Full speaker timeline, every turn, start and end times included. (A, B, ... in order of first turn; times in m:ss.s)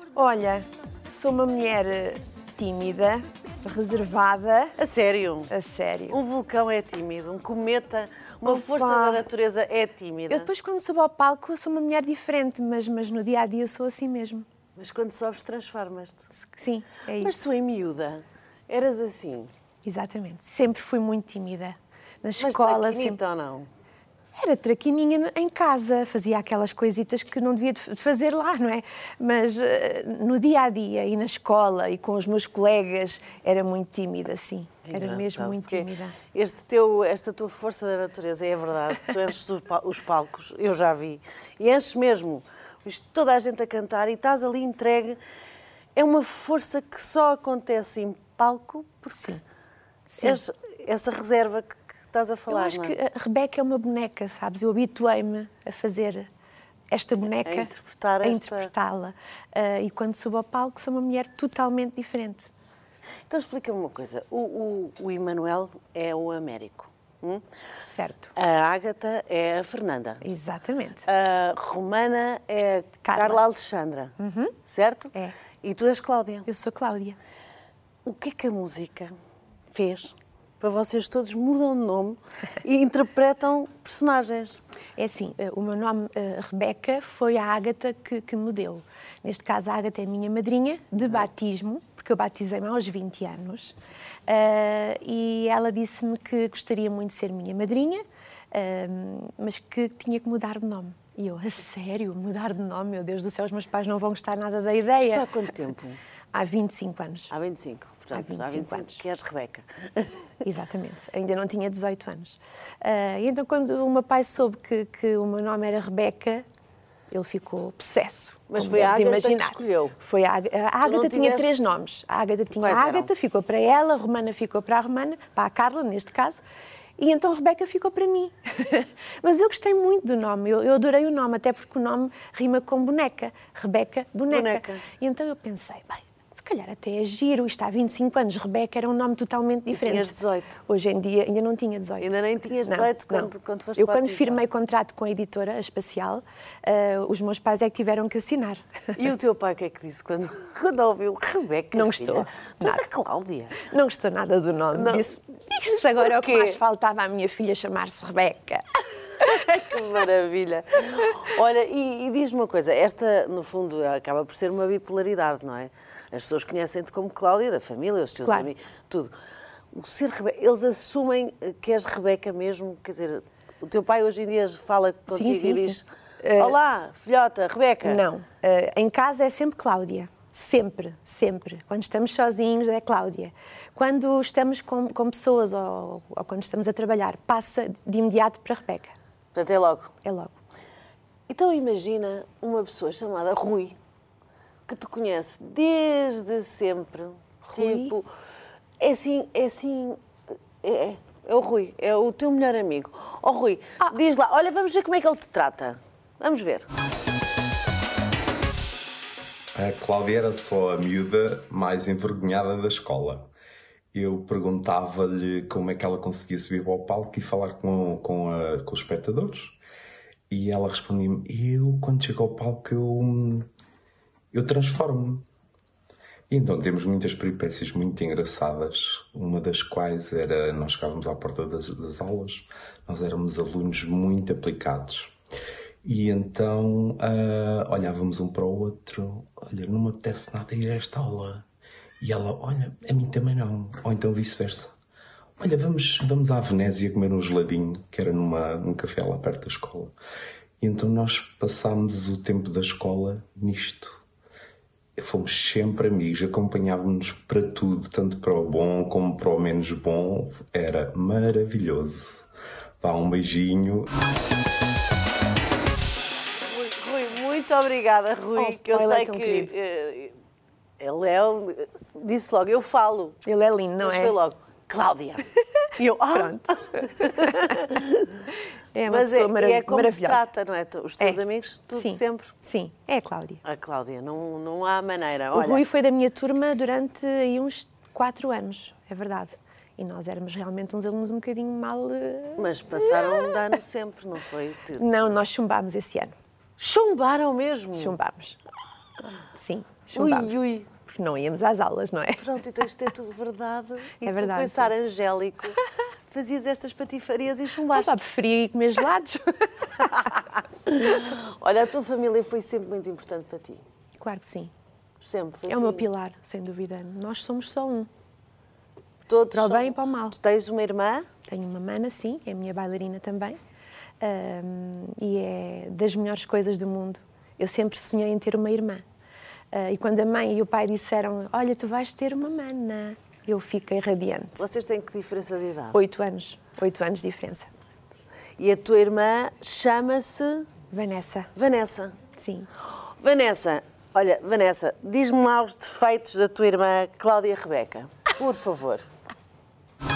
0:00.1-0:04.7 A
0:04.8-0:05.5 B
0:05.5-0:06.2 A
0:06.1-0:10.5 B
0:08.4-0:09.2 A
0:10.3-0:14.4 A
0:14.8-0:16.3 B
0:16.3-0:17.4 A
0:17.2-0:19.5 B
0:19.8-0:23.2 A
0:22.4-0:23.7 B
0:24.4-0:36.2 A
0:34.9-0:45.2 B
0:45.9-0:49.4 B
0:49.1-0:49.4 A
0:50.1-0:50.4 A
0:50.2-0:52.9 B
0:52.5-0:56.3 A
0:56.9-0:57.7 A
0:57.4-0:58.7 B
0:58.2-1:02.5 A
1:03.3-1:07.4 B
1:07.8-1:08.3 A
1:08.4-1:10.2 B
1:10.2-1:11.0 A
1:11.1-1:14.1 B
1:13.0-1:13.4 A
1:14.2-1:14.6 A
1:14.6-1:16.5 B
1:16.5-1:17.2 A
1:18.0-1:19.1 B
1:19.7-1:24.6 B
1:25.0-1:33.7 A
1:34.3-1:45.2 A
1:45.0-1:46.0 B
1:46.3-1:47.3 A
1:47.3-1:50.1 B
1:48.1-1:49.0 A
1:50.4-1:56.4 A
1:57.1-2:06.4 A
1:58.5-2:00.0 B
2:00.8-2:01.5 B
2:02.6-2:03.1 B
2:07.0-2:20.2 A
2:14.3-2:14.8 B
2:19.7-2:20.6 B
2:20.7-2:22.1 A
2:22.0-2:24.4 B
2:22.6-2:28.6 A
2:28.9-2:33.6 B
2:31.7-2:32.8 A
2:33.6-2:38.6 A
2:34.7-2:35.1 B
2:35.9-2:36.6 B
2:39.2-2:39.8 A
2:39.5-2:49.1 B
2:49.7-2:55.8 B
2:55.1-2:56.6 A
2:56.4-2:58.0 B
2:57.8-3:08.9 A
3:09.3-3:09.9 B
3:10.0-3:10.4 A
3:11.3-3:13.8 B
3:14.7-3:18.1 B
3:17.5-3:17.9 A
3:18.8-3:20.0 B
3:20.6-3:26.7 B
3:29.5-3:33.3 C
3:33.9-3:39.6 C
3:40.3-3:43.5 C
3:44.3-3:45.3 C
3:46.3-3:55.1 C
3:55.8-4:01.4 C
4:02.0-4:04.8 C
4:05.4-4:09.9 C
4:10.6-4:14.0 C
4:15.0-4:22.3 C
4:22.8-4:23.9 C
4:26.4-4:30.1 B
4:28.4-4:29.5 A
4:30.8-4:33.2 B
4:33.2-4:34.2 A
4:33.8-4:35.2 B
4:35.8-4:38.1 B
4:36.1-4:37.6 A
4:38.7-4:40.2 A
4:38.9-4:42.3 B
4:41.7-4:43.4 A
4:43.4-4:45.6 B
4:45.3-4:53.4 A
4:52.4-4:55.1 B
4:54.8-4:56.1 A
4:56.6-4:58.0 B
4:57.7-4:58.4 A
4:59.4-5:02.3 A
4:59.9-5:00.7 B
5:02.2-5:05.6 B
5:04.0-5:04.7 A
5:06.1-5:08.0 B
5:07.7-5:10.1 A
5:10.6-5:13.6 B
5:14.0-5:14.5 A
5:15.0-5:15.8 B
5:15.5-5:17.9 A
5:19.1-5:21.1 B
5:19.3-5:20.2 A
5:21.3-5:23.4 A
5:24.0-5:28.8 A
5:29.5-5:34.4 A
5:34.4-5:35.8 B
5:35.7-5:37.5 A
5:38.4-5:40.5 B
5:40.7-5:41.3 A
5:41.3-5:42.0 B
5:42.2-5:42.5 A
5:43.0-5:48.8 B